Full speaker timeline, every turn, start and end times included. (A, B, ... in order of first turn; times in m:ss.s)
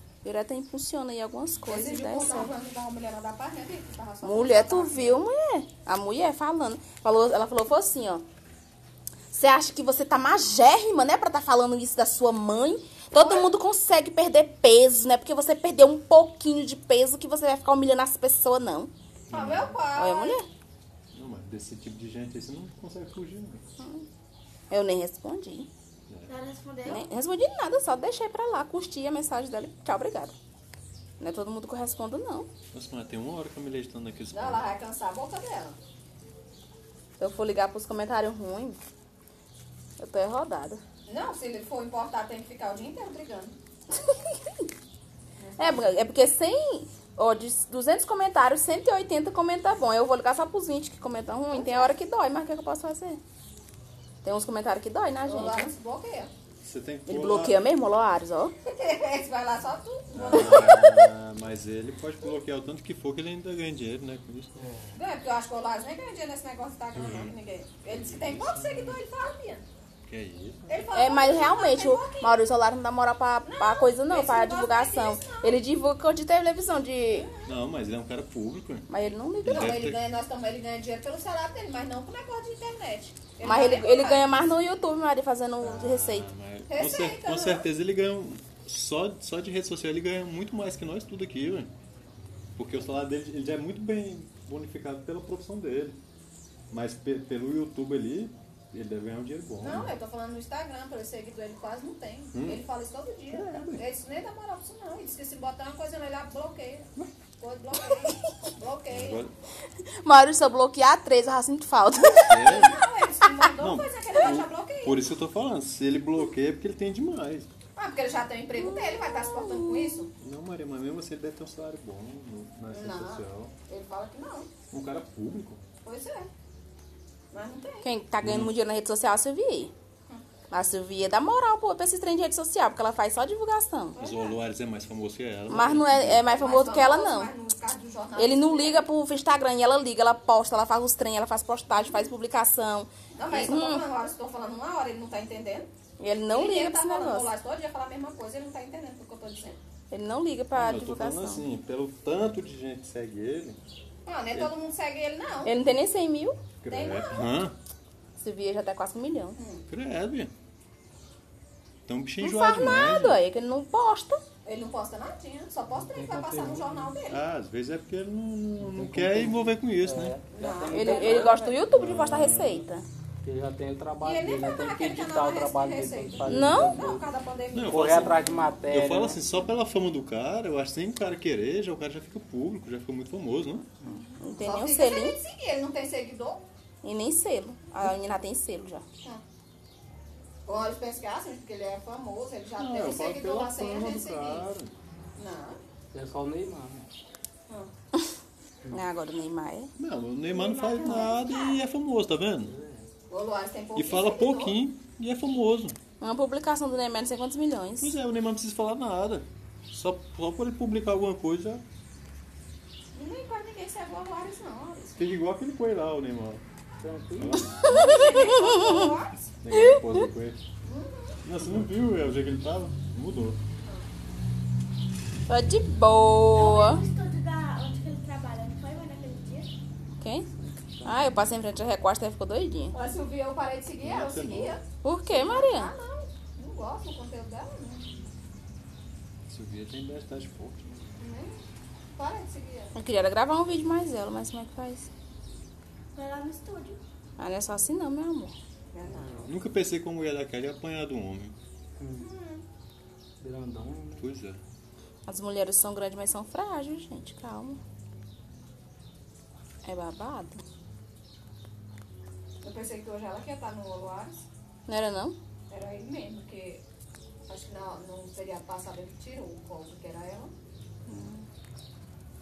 0:00.2-0:02.5 A
0:01.7-0:05.2 B
0:04.2-0:08.2 A
0:09.3-0:18.9 A
0:13.2-0:13.5 B
0:19.3-0:19.8 C
0:19.3-0:20.4 B
0:20.0-0:20.4 A
0:21.1-0:23.7 C
0:23.8-0:24.0 A
0:24.7-0:25.7 A
0:26.2-0:27.0 D
0:26.9-0:30.3 A
0:31.2-0:32.5 A
0:32.7-0:34.7 C
0:34.3-0:35.8 B
0:37.2-0:38.8 A
0:40.0-0:40.8 A
0:41.0-0:43.6 B
0:45.4-0:46.0 B
0:45.6-0:53.2 A
0:51.5-0:52.0 B
0:54.2-0:55.7 A
0:55.2-0:56.3 B
0:56.6-0:57.6 C
0:57.1-0:58.5 A
0:58.7-1:00.9 B
1:00.1-1:04.6 C
1:00.4-1:01.1 A
1:04.6-1:05.0 E
1:05.0-1:09.6 B
1:07.0-1:07.3 C
1:07.9-1:08.6 C
1:08.6-1:08.9 E
1:10.1-1:10.7 C
1:10.7-1:12.4 B
1:10.9-1:17.3 A
1:13.4-1:15.6 B
1:17.1-1:17.5 B
1:17.4-1:18.9 C
1:18.9-1:19.8 A
1:19.4-1:20.0 C
1:19.5-1:24.4 B
1:23.4-1:26.3 A
1:25.6-1:31.7 C
1:26.7-1:27.7 B
1:32.6-1:36.0 C
1:36.7-1:39.9 C
1:39.6-1:46.9 B
1:42.3-1:42.6 C
1:43.3-1:43.8 C
1:47.4-1:49.2 B
1:48.9-1:49.3 C
1:50.0-1:52.7 A
1:52.3-1:52.8 C
1:52.3-1:55.0 B
1:53.6-1:57.5 C
1:57.8-2:00.1 B
1:58.6-2:00.0 A
2:00.2-2:03.6 C
2:02.7-2:04.5 B
2:04.7-2:05.6 C
2:05.8-2:06.3 B
2:07.3-2:07.9 B
2:07.8-2:09.7 A
2:08.2-2:08.5 C
2:10.5-2:14.0 A
2:13.9-2:14.4 B
2:14.0-2:16.3 C
2:15.5-2:17.3 A
2:16.2-2:18.9 B
2:18.2-2:23.8 A
2:23.1-2:25.7 B
2:26.0-2:27.3 A
2:26.3-2:29.6 B
2:29.9-2:31.4 A
2:30.5-2:33.6 C
2:34.0-2:35.5 B
2:35.4-2:36.4 A
2:36.6-2:37.6 C
2:36.7-2:37.3 B
2:38.2-2:39.4 A
2:39.4-2:39.6 B
2:39.7-2:40.3 C
2:41.9-2:43.2 C
2:42.2-2:44.2 A
2:44.4-2:47.2 B
2:45.7-2:46.9 E
2:47.1-2:50.2 C
2:48.6-2:52.4 E
2:50.3-2:51.5 B
2:50.7-2:52.8 A
2:51.3-2:52.6 C
2:53.2-2:57.1 E
2:54.0-2:58.5 B
2:56.3-2:56.8 A
2:57.5-3:03.7 C
2:57.6-2:59.2 E
3:03.9-3:05.2 A
3:04.4-3:06.4 B
3:06.8-3:08.8 A
3:10.5-3:14.5 B
3:12.6-3:14.8 C
3:15.2-3:15.6 B
3:15.9-3:16.9 E
3:18.7-3:19.7 A
3:19.8-3:22.5 C
3:20.3-3:21.6 D
3:20.8-3:21.1 A
3:22.4-3:22.9 E
3:23.1-3:24.6 B
3:23.8-3:25.8 C
3:26.0-3:27.9 A
3:27.8-3:31.6 C
3:32.9-3:35.1 B
3:35.0-3:36.4 C
3:36.8-3:37.5 E
3:37.2-3:37.5 C
3:37.6-3:38.9 A
3:37.6-3:39.3 B
3:39.4-3:40.4 C
3:39.5-3:39.8 A
3:40.6-3:41.2 B
3:41.2-3:43.4 C
3:45.3-3:46.8 A
3:46.3-3:49.5 D
3:50.0-3:50.3 A
3:50.3-3:51.3 E
3:50.8-3:52.8 A
3:52.7-3:57.9 B
3:53.8-3:54.6 C
3:54.8-3:55.7 A
3:59.3-4:00.9 C
4:01.0-4:01.3 B
4:01.9-4:02.8 B
4:02.8-4:04.9 A
4:05.9-4:06.8 D
4:07.2-4:08.3 A
4:08.7-4:09.3 B
4:09.2-4:11.4 C
4:11.8-4:12.1 E
4:12.0-4:12.4 B
4:13.2-4:14.1 E
4:14.0-4:14.4 C
4:15.1-4:17.6 A
4:19.6-4:20.4 A
4:22.4-4:24.2 B
4:24.7-4:25.2 A
4:25.5-4:26.6 B
4:27.3-4:30.3 B
4:30.9-4:31.2 A